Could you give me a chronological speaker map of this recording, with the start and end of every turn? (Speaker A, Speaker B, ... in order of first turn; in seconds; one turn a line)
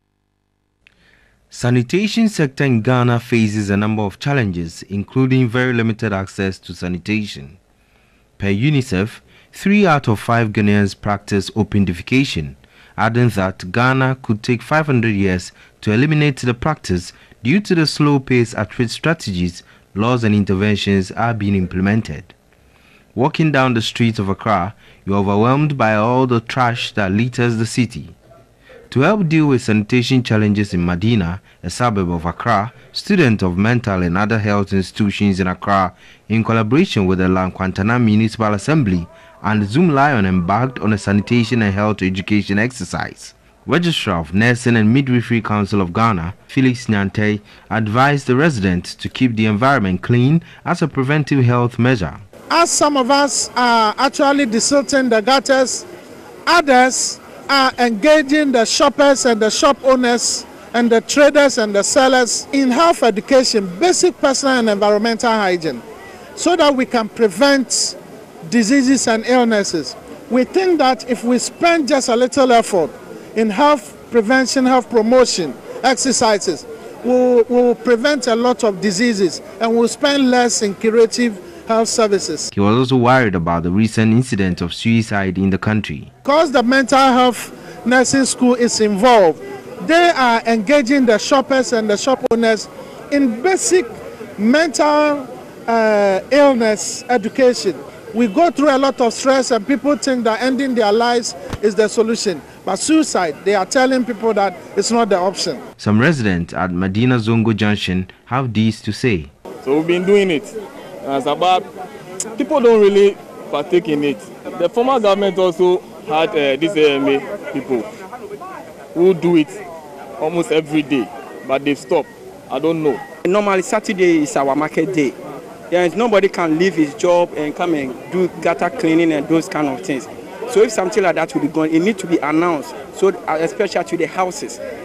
Speaker A: 1.5-7.6
Speaker A: 8.4-22.3
Speaker A: 23.1-28.1
Speaker A: 28.9-52.2
Speaker B: 52.5-55.9
Speaker B: 56.5-65.8
Speaker B: 66.4-82.5
Speaker A: 82.5-86.1
Speaker B: 86.2-105.6
Speaker A: 105.8-109.3
Speaker C: 109.6-111.7
Speaker C: 112.4-117.9
Speaker C: 118.9-119.6
Speaker C: 120.2-123.0
Speaker D: 123.2-125.1
Speaker D: 125.7-134.6